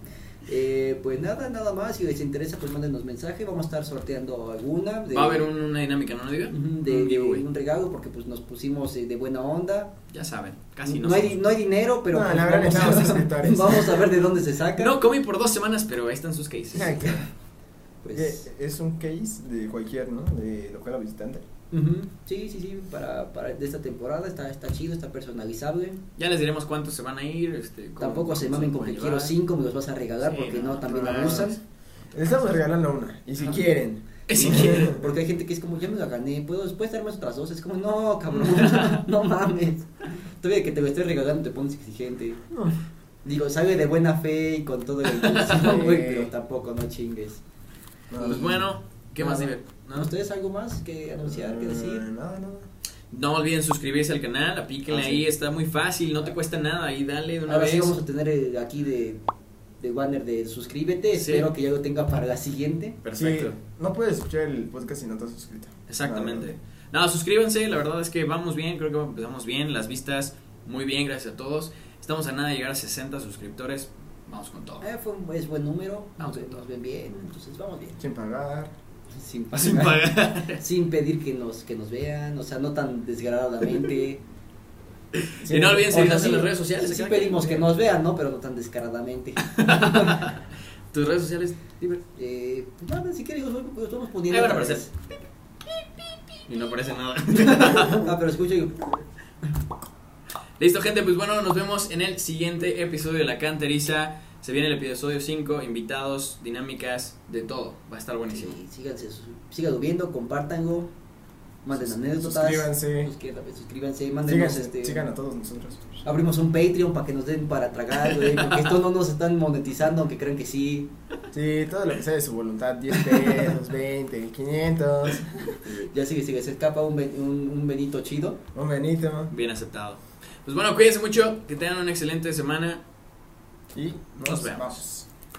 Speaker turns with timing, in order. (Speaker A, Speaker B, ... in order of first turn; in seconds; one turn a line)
Speaker A: 0.5-5.5
Speaker B: 5.1-7.5
Speaker A: 6.5-9.9
Speaker B: 10.1-11.4
Speaker A: 10.8-14.9
Speaker C: 12.1-14.1
Speaker B: 14.8-17.2
Speaker C: 16.7-17.2
Speaker A: 18.0-18.4
Speaker C: 18.1-21.5
Speaker A: 21.7-26.0
Speaker B: 26.2-29.3
Speaker A: 28.0-31.6
Speaker B: 30.2-31.6
Speaker C: 30.9-31.5
Speaker C: 32.1-35.0
Speaker B: 34.3-34.9
Speaker A: 34.3-42.4
Speaker B: 38.3-39.0
Speaker A: 43.2-47.4
Speaker B: 45.1-45.8
Speaker C: 45.6-46.3
Speaker C: 48.1-48.6
Speaker A: 48.2-52.0
Speaker B: 48.2-50.1
Speaker C: 51.2-52.7
Speaker B: 53.1-58.0
Speaker C: 54.9-55.3
Speaker A: 57.5-59.2
Speaker A: 59.8-63.0
Speaker B: 61.1-61.5
Speaker B: 63.0-63.6
Speaker C: 63.1-66.5
Speaker B: 65.9-74.9
Speaker A: 74.8-78.0
Speaker B: 76.2-76.6
Speaker C: 78.0-78.7
Speaker A: 79.1-84.2
Speaker B: 79.5-80.6
Speaker B: 85.2-87.7
Speaker A: 85.5-90.3
Speaker B: 89.5-92.0
Speaker A: 92.2-94.9
Speaker B: 94.3-94.9
Speaker B: 96.4-98.1
Speaker A: 97.3-99.0
Speaker B: 100.6-108.5
Speaker A: 108.3-110.9
Speaker A: 111.6-115.1
Speaker C: 112.0-113.1
Speaker C: 114.3-115.9
Speaker A: 116.0-120.9
Speaker B: 118.1-118.7
Speaker C: 121.3-125.6
Speaker A: 123.0-123.5
Speaker A: 125.7-128.4
Speaker C: 128.5-129.3
Speaker B: 129.3-132.8
Speaker C: 133.7-135.1
Speaker B: 134.2-134.8